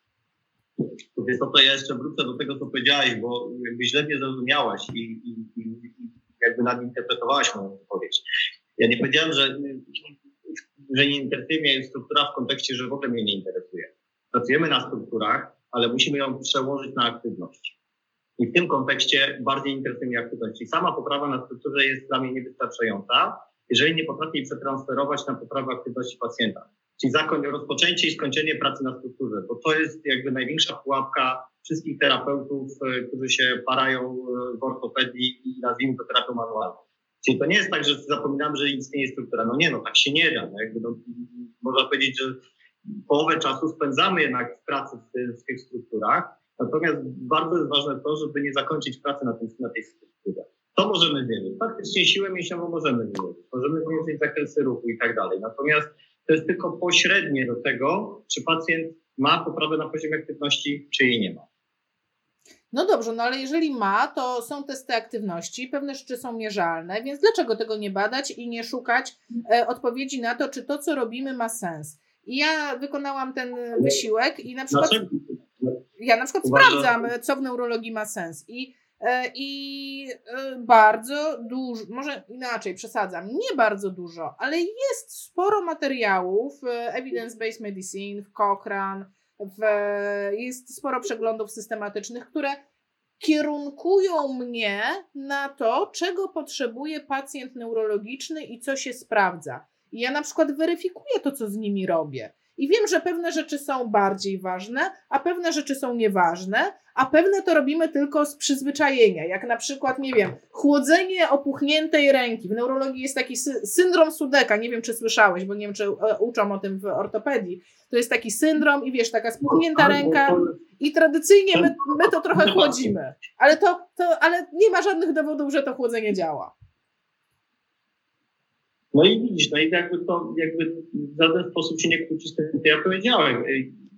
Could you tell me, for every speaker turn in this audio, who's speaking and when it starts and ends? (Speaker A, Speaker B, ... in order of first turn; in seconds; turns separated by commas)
Speaker A: 0.8-8.2, Speaker A: 8.8-17.8, Speaker A: 18.4-42.4, Speaker A: 43.1-61.4, Speaker B: 62.7-75.0, Speaker A: 74.7-75.8, Speaker B: 76.0-92.6, Speaker A: 76.4-77.1, Speaker B: 93.2-126.5, Speaker A: 119.4-120.6, Speaker A: 121.5-122.9, Speaker A: 128.9-133.7